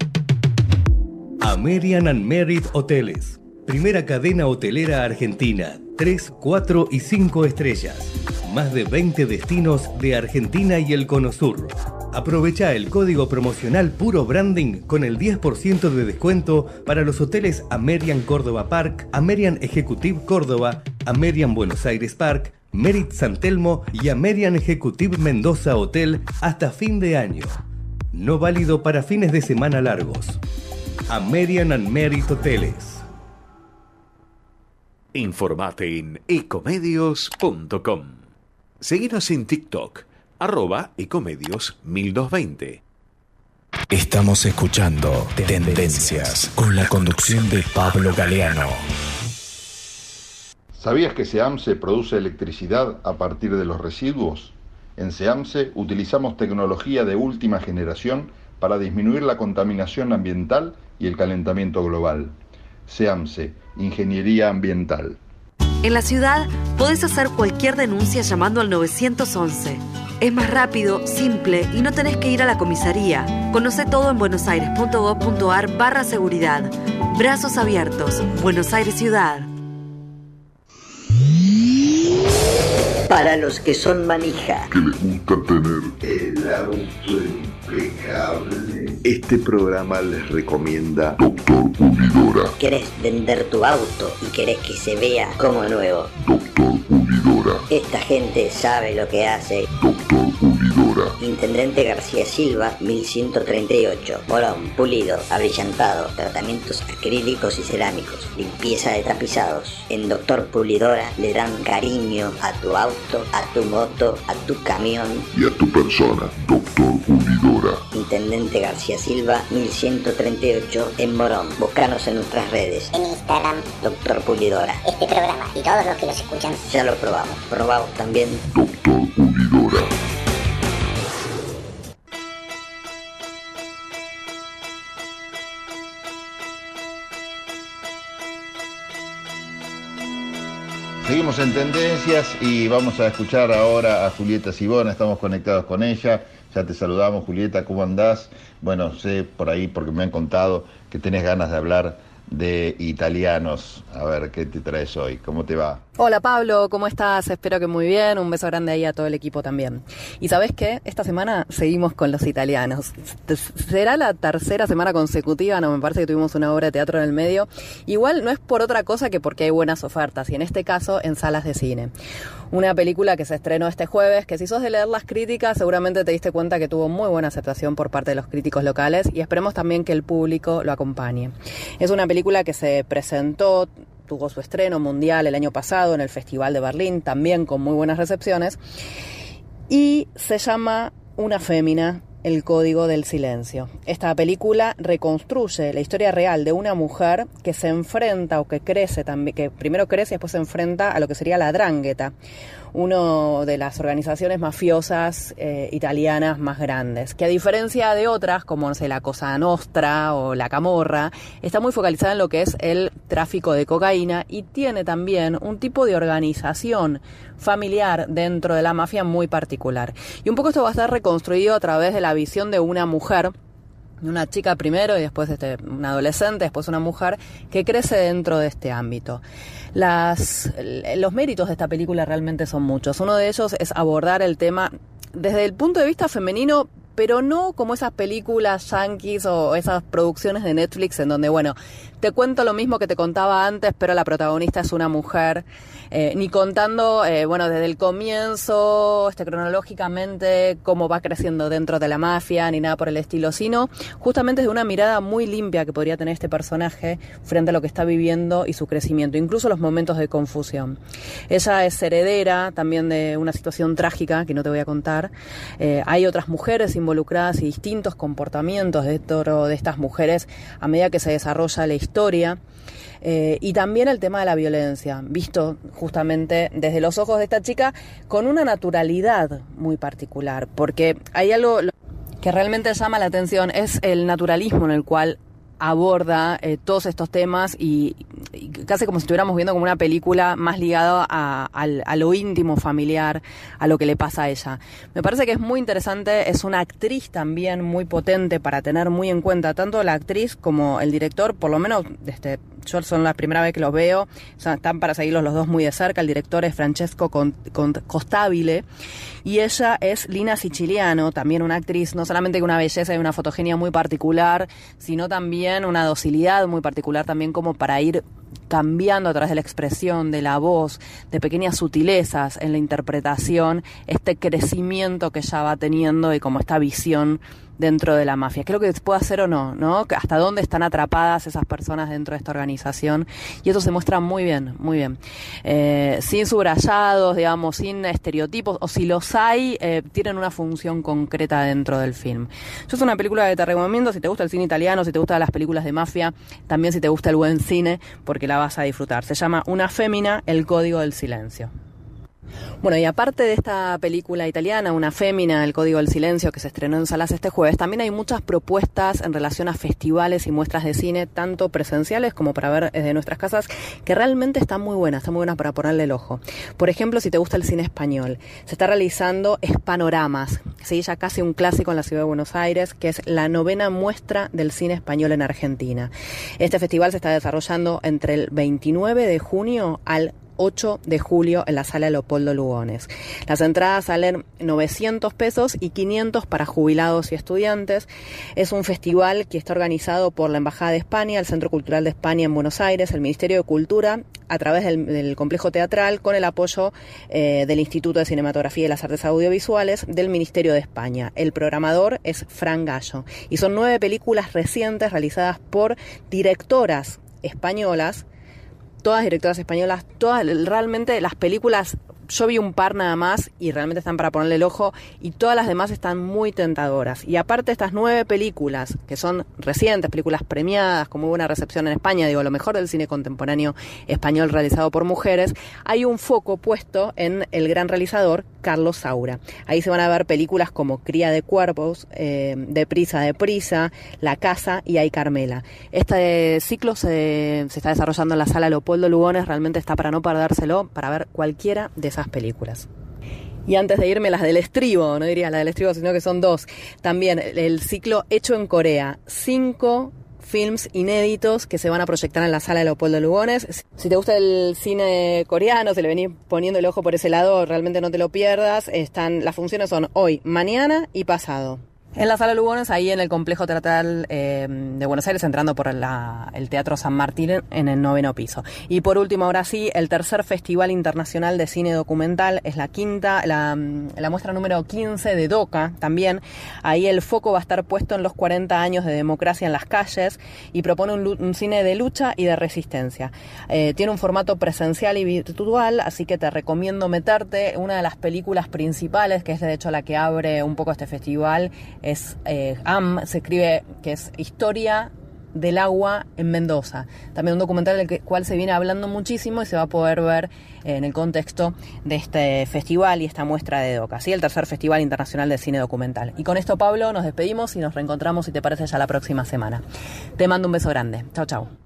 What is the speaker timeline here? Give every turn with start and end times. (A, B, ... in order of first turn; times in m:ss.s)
0:01.4-0:27.6 A
0:28.1-0:30.4 A
0:31.1-0:33.0 A
0:35.1-0:38.3 B
0:38.8-0:42.8 B
0:43.9-0:48.8 C
0:50.8-1:02.4 D
1:02.9-1:05.2 D
1:05.8-1:19.5 E
1:23.1-1:24.7 F
1:24.7-1:26.0 G
1:26.0-1:31.2 D
1:31.2-1:32.6 G
1:32.6-1:36.1 F
1:36.2-1:37.7 G
1:37.7-1:39.7 F
1:39.7-1:41.2 G
1:41.2-1:55.3 F
1:55.3-1:57.8 G
1:57.9-2:02.9 F
2:02.9-2:03.8 H
2:03.8-2:04.8 F
2:04.8-2:06.6 H
2:06.7-2:08.4 F
2:08.5-2:09.9 G
2:21.0-2:35.8 D
2:36.0-2:51.9 I
2:52.5-3:08.6 I
3:09.7-3:22.2 I
3:22.7-3:43.3 I
3:44.0-3:49.2 I
3:49.7-4:32.4 I
4:33.0-5:08.6 I
5:09.2-5:51.5 I
5:52.6-6:48.0 I
6:48.8-7:22.7 I
7:23.5-8:29.6 I
8:30.2-8:31.5 I